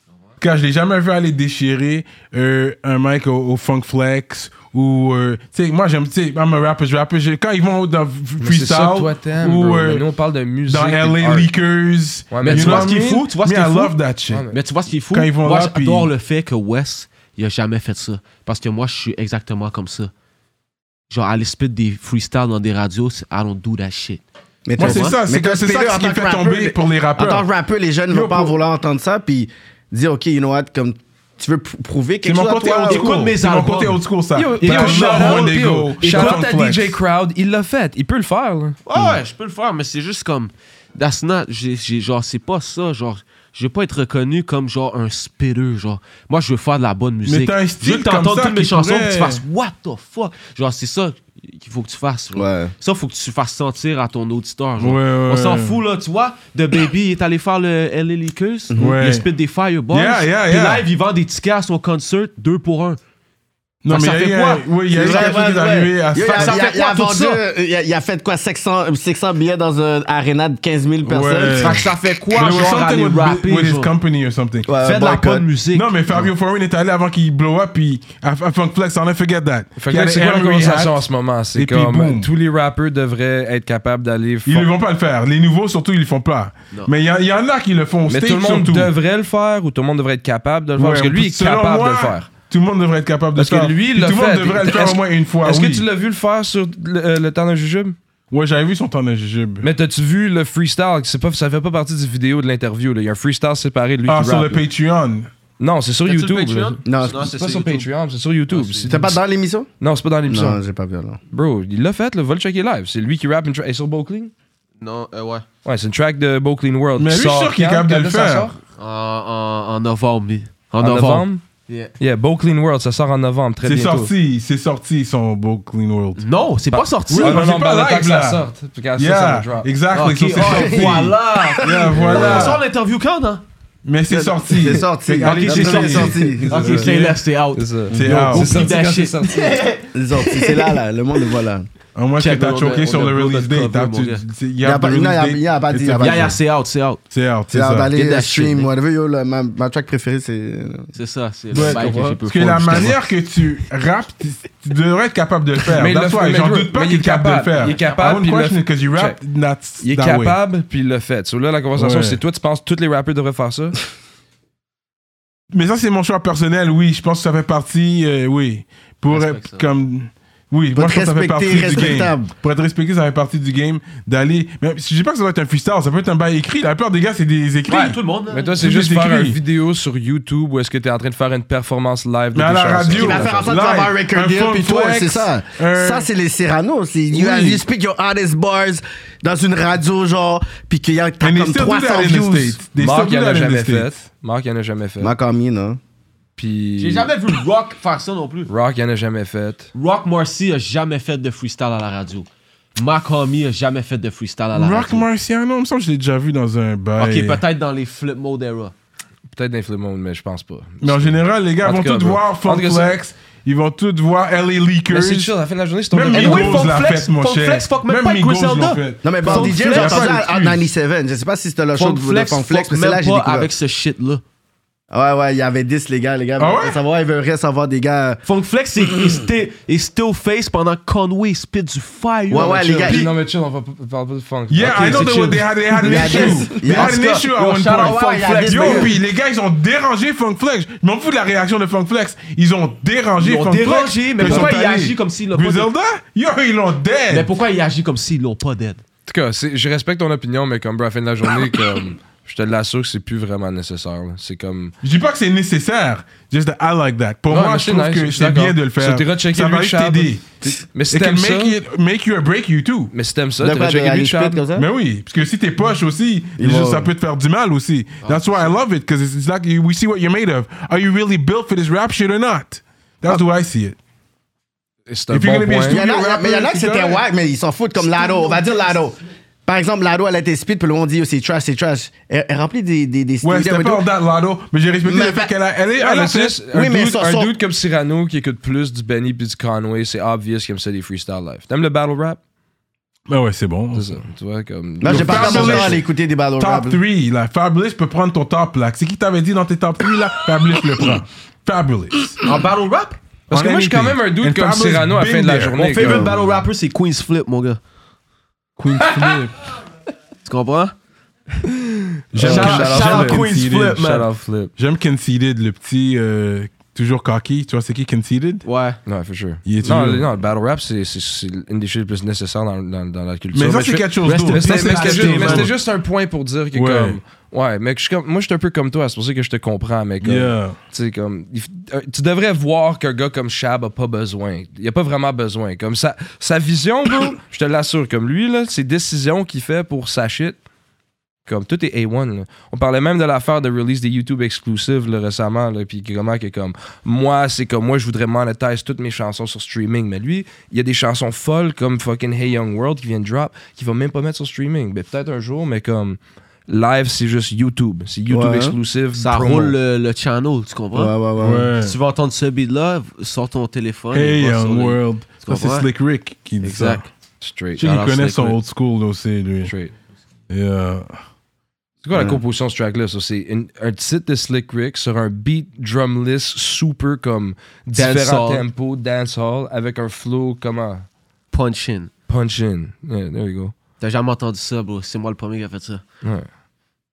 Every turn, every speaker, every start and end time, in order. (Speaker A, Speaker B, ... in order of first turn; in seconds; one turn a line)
Speaker A: 0.4-10.0
Speaker B: 8.4-11.5
Speaker A: 10.7-14.4
Speaker B: 12.3-13.2
Speaker C: 12.4-14.0
Speaker B: 14.3-14.6
Speaker C: 14.5-20.1
Speaker A: 15.1-16.1
Speaker C: 21.1-24.2
Speaker D: 24.6-33.1
Speaker C: 24.8-25.1
Speaker A: 24.8-27.4
Speaker A: 28.1-28.5
Speaker A: 32.2-37.0
Speaker C: 32.9-34.0
Speaker B: 34.3-38.8
Speaker C: 34.6-36.4
Speaker C: 38.9-63.0
Speaker A: 47.2-49.4
Speaker D: 52.3-52.7
Speaker A: 54.8-55.8
Speaker D: 58.7-59.0
Speaker A: 58.8-59.2
Speaker A: 59.9-60.9
Speaker A: 63.8-66.6
Speaker C: 63.9-65.4
Speaker D: 64.9-71.8
Speaker C: 66.2-67.4
Speaker A: 71.0-74.7
Speaker C: 71.6-73.9
Speaker D: 74.7-75.5
Speaker C: 74.8-75.9
Speaker A: 75.7-81.0
Speaker B: 79.8-84.7
Speaker A: 81.5-82.3
Speaker A: 84.5-88.9
Speaker B: 88.1-92.3
Speaker A: 90.8-95.8
Speaker B: 93.3-97.9
Speaker A: 98.3-99.7
Speaker B: 99.6-104.6
Speaker A: 104.0-105.3
Speaker B: 105.6-109.2
Speaker C: 106.1-107.9
Speaker D: 106.8-107.2
Speaker C: 108.5-108.9
Speaker D: 108.9-109.7
Speaker B: 109.8-110.6
Speaker D: 110.3-111.2
Speaker B: 111.3-114.3
Speaker C: 114.8-115.4
Speaker B: 115.6-118.6
Speaker A: 117.0-118.5
Speaker C: 118.8-121.9
Speaker B: 120.8-121.4
Speaker B: 122.0-124.1
Speaker A: 123.6-126.2
Speaker C: 126.2-127.5
Speaker A: 127.1-128.4
Speaker B: 127.1-129.7
Speaker A: 129.0-132.6
Speaker C: 129.9-133.4
Speaker D: 130.4-131.9
Speaker B: 131.9-132.5
Speaker A: 133.8-137.1
Speaker D: 134.1-136.9
Speaker C: 135.2-140.8
Speaker B: 137.5-139.6
Speaker A: 137.9-138.5
Speaker D: 139.9-141.7
Speaker A: 141.9-146.4
Speaker C: 142.2-144.2
Speaker D: 144.6-146.3
Speaker C: 146.0-147.0
Speaker A: 147.1-147.9
Speaker D: 147.5-150.9
Speaker C: 147.9-148.7
Speaker C: 150.9-153.0
Speaker A: 151.5-160.4
Speaker D: 151.5-152.2
Speaker B: 155.7-159.2
Speaker B: 159.8-163.8
Speaker A: 161.8-162.2
Speaker A: 165.5-178.0
Speaker C: 169.1-169.7
Speaker D: 170.7-172.3
Speaker C: 177.7-178.6
Speaker B: 178.3-183.4
Speaker A: 178.6-179.4
Speaker A: 182.3-186.1
Speaker D: 182.9-192.6
Speaker A: 187.1-187.6
Speaker A: 191.2-194.0
Speaker B: 192.8-195.1
Speaker D: 195.0-195.8
Speaker B: 196.4-197.1
Speaker C: 196.8-198.5
Speaker B: 198.5-199.7
Speaker C: 199.7-205.1
Speaker A: 204.5-207.4
Speaker C: 207.0-208.7
Speaker B: 209.3-212.9
Speaker A: 210.8-215.3
Speaker B: 214.9-216.7
Speaker A: 215.9-220.7
Speaker C: 216.1-220.2
Speaker D: 219.0-223.5
Speaker C: 221.8-224.2
Speaker D: 224.9-228.2
Speaker A: 226.4-226.8
Speaker C: 228.2-233.1
Speaker D: 228.9-229.1
Speaker D: 232.3-233.0
Speaker B: 232.8-235.4
Speaker A: 234.5-247.3
Speaker C: 234.7-238.9
Speaker D: 235.8-237.0
Speaker D: 237.7-238.9
Speaker C: 243.2-245.7
Speaker C: 247.1-248.8
Speaker B: 249.1-254.7
Speaker A: 254.8-260.2
Speaker B: 257.3-261.6
Speaker A: 260.9-262.9
Speaker B: 262.9-264.4
Speaker D: 263.4-264.7
Speaker A: 264.5-273.8
Speaker D: 266.4-266.9
Speaker C: 268.0-268.5
Speaker B: 274.9-275.8
Speaker A: 275.1-277.0
Speaker D: 275.6-283.8
Speaker A: 283.2-286.4
Speaker D: 284.8-285.3
Speaker B: 285.8-292.2
Speaker D: 286.5-287.4
Speaker A: 293.1-293.9
Speaker B: 293.7-295.8
Speaker D: 294.8-296.8
Speaker A: 294.8-295.8
Speaker A: 296.4-302.2
Speaker C: 302.2-303.0
Speaker B: 303.3-306.1
Speaker A: 303.3-306.3
Speaker C: 305.6-307.6
Speaker A: 308.6-309.3
Speaker C: 308.8-309.1
Speaker C: 310.2-310.7
Speaker B: 311.8-314.5
Speaker A: 312.1-313.9
Speaker C: 312.2-314.1
Speaker A: 314.6-318.4
Speaker C: 318.4-318.8
Speaker B: 318.9-340.4
Speaker A: 319.4-320.1
Speaker A: 323.3-325.5
Speaker C: 324.0-325.5
Speaker A: 326.5-327.0
Speaker A: 330.0-330.6
Speaker B: 341.3-359.5
Speaker D: 358.1-358.6
Speaker C: 358.9-360.9
Speaker D: 360.7-361.5
Speaker A: 361.2-361.8
Speaker C: 361.6-365.7
Speaker A: 363.9-366.9
Speaker C: 366.4-366.9
Speaker B: 367.2-367.8
Speaker A: 367.6-369.5
Speaker C: 367.6-368.4
Speaker B: 369.4-369.7
Speaker A: 370.3-371.0
Speaker B: 371.8-380.9
Speaker D: 371.9-372.2
Speaker C: 377.7-378.4
Speaker C: 381.3-381.9
Speaker B: 382.1-383.5
Speaker C: 383.8-385.8